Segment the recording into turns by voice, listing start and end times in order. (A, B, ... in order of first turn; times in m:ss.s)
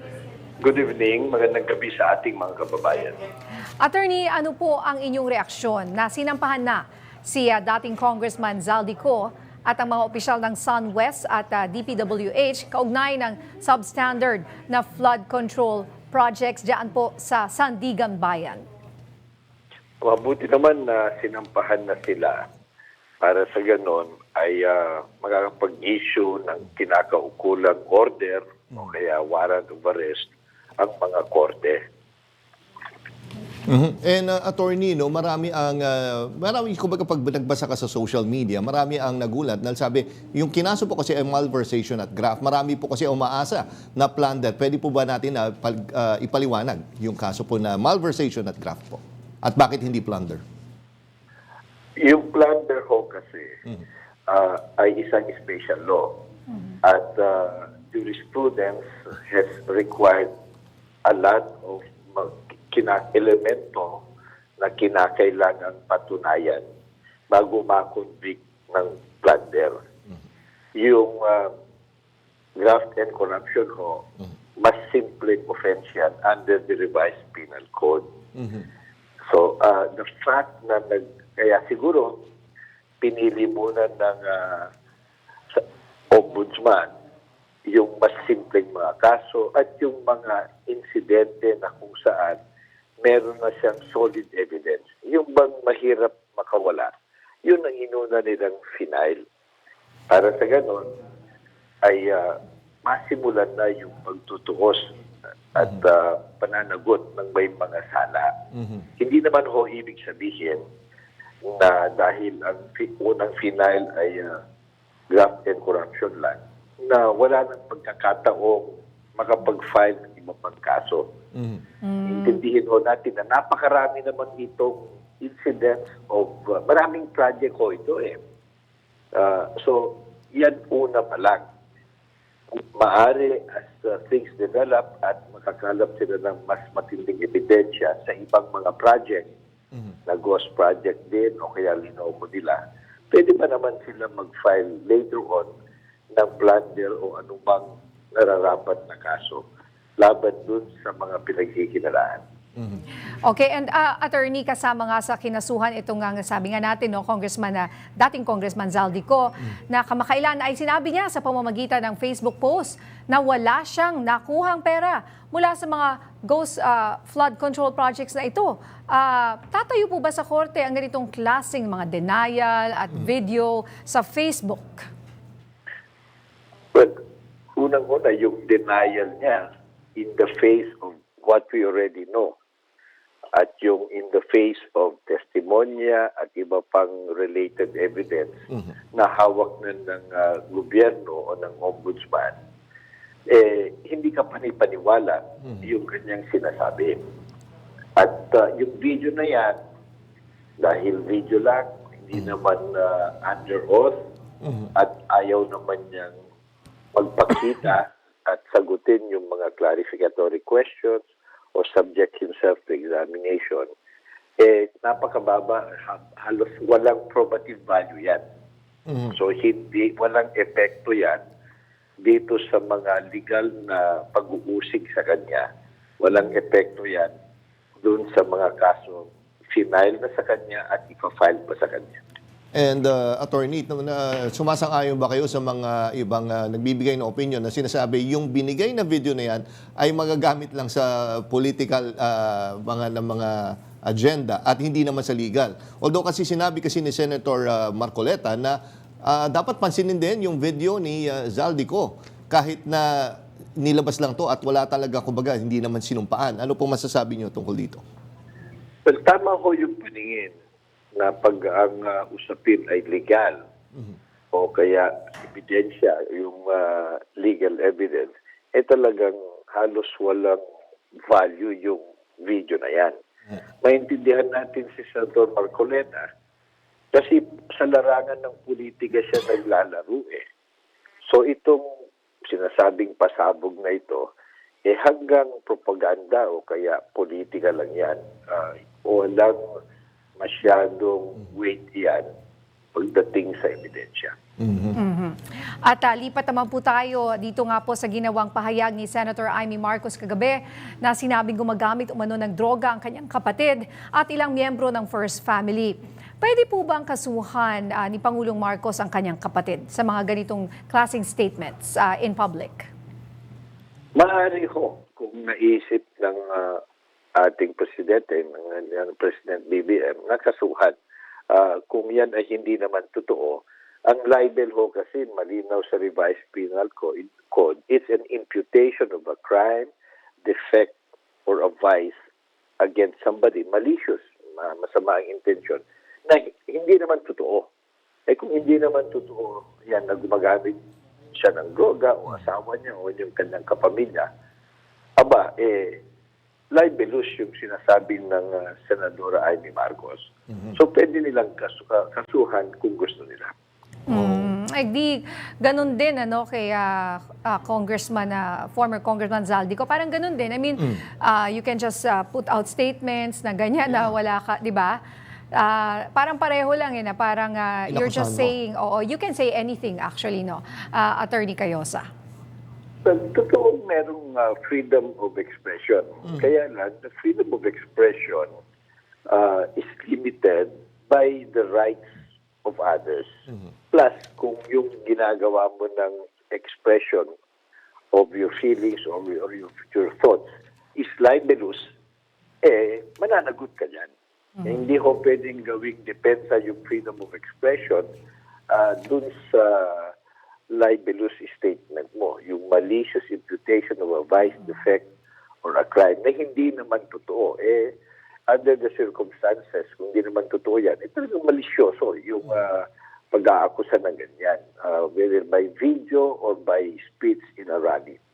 0:00.6-0:03.2 A
0:03.8-0:18.6 B
0:20.0-0:22.4 A
0:23.2-0:31.8 A
0:33.7-0:50.4 C
0:52.0-0:53.6 A
0:54.3-0:56.1 A
0:56.8-1:00.3 A
1:01.0-1:04.0 A
1:04.6-1:06.6 A
1:07.3-1:09.8 A
1:10.8-1:11.5 A
1:12.6-1:14.1 A
1:14.6-1:18.1 A
1:19.3-1:22.2 A
1:23.0-1:24.7 A
1:26.1-1:26.9 A
1:27.7-1:32.4 A
1:33.0-1:36.9 A
1:37.4-1:39.2 A
1:40.1-1:40.9 A
1:41.8-1:44.9 A
1:45.5-1:48.3 A
1:49.0-1:50.6 A
1:51.4-1:54.4 A
1:55.1-1:58.6 A
1:59.2-2:01.1 A
2:01.4-2:01.6 C
2:01.8-2:02.4 B
2:02.1-2:08.2 A
2:09.1-2:11.4 A
2:12.8-2:19.3 A
2:20.1-2:22.6 A
2:23.1-2:25.5 A
2:26.1-2:29.4 A
2:30.0-2:32.2 A
2:33.2-2:54.9 B
2:57.6-3:02.4 A
3:03.3-3:08.3 A
3:08.9-3:12.3 A
3:13.3-3:17.0 A
3:18.0-3:19.6 A
3:20.6-3:24.0 A
3:24.4-3:24.7 C
3:24.8-3:26.2 A
3:26.9-3:31.0 A
3:31.6-3:33.7 A
3:34.4-3:38.2 A
3:39.1-3:41.2 A
3:42.0-3:45.5 A
3:46.0-3:47.1 A
3:47.8-3:52.0 A
3:52.6-4:17.8 C
4:18.9-4:20.3 A
4:21.0-4:23.4 A
4:24.3-4:30.4 A
4:31.1-4:33.0 A
4:33.6-4:36.1 A
4:36.9-4:40.2 A
4:41.1-4:41.6 A
4:42.3-4:44.1 A
4:44.7-4:49.4 A
4:50.2-4:52.1 A
4:52.8-4:54.1 A
4:54.4-4:54.8 C
4:54.8-5:12.7 B
5:14.0-5:16.6 A
5:17.2-5:20.8 A
5:21.3-5:29.7 A
5:30.2-5:30.8 A
5:31.3-5:31.9 A
5:32.6-5:37.5 A
5:38.1-5:40.6 A
5:41.2-5:44.1 A
5:45.0-5:45.8 A
5:46.5-5:53.3 A
5:53.9-6:04.8 B
5:53.9-5:54.3 C
6:05.3-6:11.9 B
6:07.7-6:08.3 C
6:12.8-6:18.3 A
6:19.1-6:21.8 A
6:22.4-6:23.1 A
6:23.7-6:27.1 A
6:27.9-6:31.7 A
6:32.4-6:33.9 A
6:34.4-6:37.9 A
6:38.5-6:39.9 A
6:40.5-6:44.9 A
6:45.4-6:47.7 A
6:48.3-6:58.0 A